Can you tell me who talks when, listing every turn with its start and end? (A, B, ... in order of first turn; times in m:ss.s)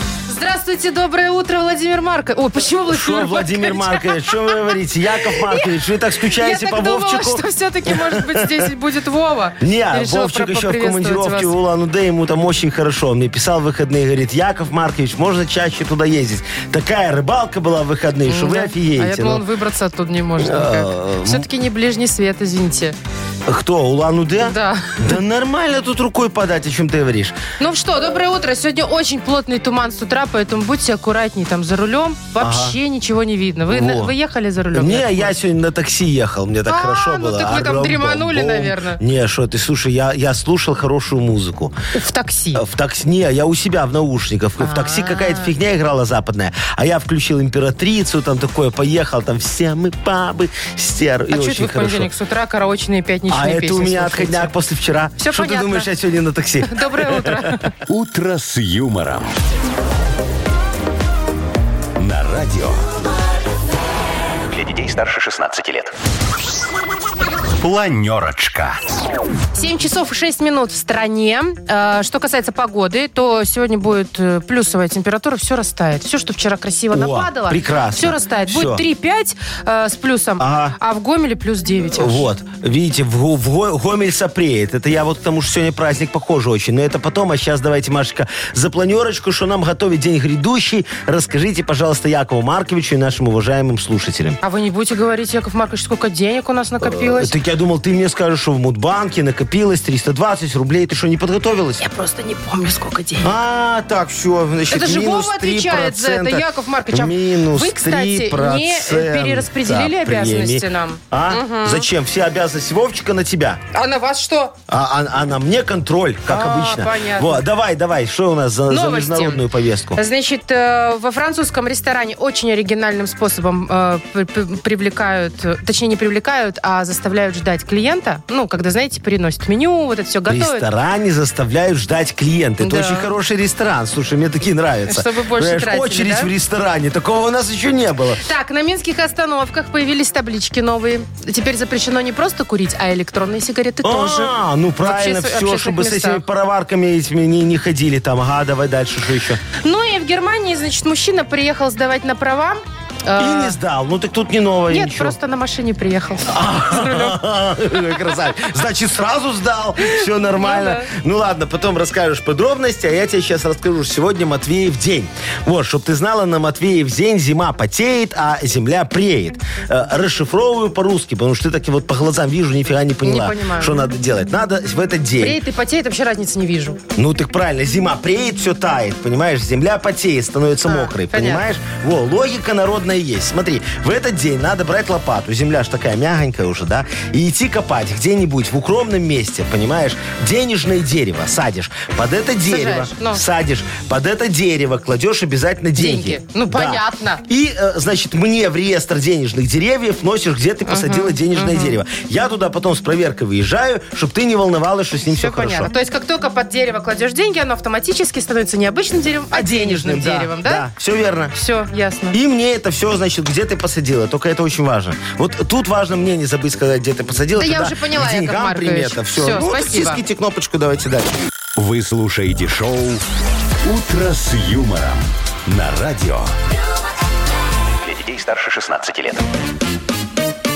0:00.3-0:11.5 A
0:02.9-0:08.7 B
0:09.6-0:19.4 B
0:18.3-0:23.0 A
0:20.4-0:21.4 B
0:23.4-0:27.4 B
0:24.4-0:25.1 A
0:27.6-0:35.3 A
0:32.4-0:32.8 B
0:33.7-0:34.1 B
0:34.7-0:41.8 B
0:36.7-0:39.0 A
0:41.9-0:42.6 A
0:42.5-0:52.1 B
0:44.6-0:45.5 A
0:51.3-0:54.5 A
0:53.3-0:57.6 B
0:55.2-0:55.9 A
0:56.6-0:57.7 A
0:57.9-0:59.3 C
1:02.0-1:02.8 C
1:04.5-1:05.9 C
1:07.6-1:08.8 C
1:09.5-1:22.3 A
1:16.9-1:18.8 B
1:20.4-1:20.8 B
1:21.9-1:34.4 B
1:34.4-1:37.3 A
1:36.8-1:41.8 B
1:41.8-1:43.3 A
1:43.2-1:53.6 B
1:44.7-1:51.9 A
1:53.7-1:54.6 A
1:54.7-2:00.0 B
1:56.3-1:57.4 A
1:58.7-1:59.4 A
1:59.9-2:10.6 A
2:10.3-2:18.2 B
2:12.6-2:13.1 A
2:14.9-2:16.3 A
2:18.2-2:26.2 A
2:23.8-2:29.4 B
2:29.6-2:33.6 A
2:33.2-2:35.2 B
2:34.7-2:37.2 A
2:36.2-2:55.4 B
2:39.8-2:40.9 A
2:53.0-2:53.9 A
2:55.2-2:56.8 A
2:57.0-3:25.7 B
3:00.6-3:01.4 A
3:12.5-3:13.2 A
3:15.8-3:17.2 A
3:20.7-3:21.8 A
3:25.0-3:30.6 A
3:29.3-3:31.3 B
3:31.3-3:32.2 A
3:32.1-3:41.2 B
3:37.4-3:40.0 A
3:41.6-3:43.0 C
3:43.6-3:46.3 C
3:47.8-3:49.2 C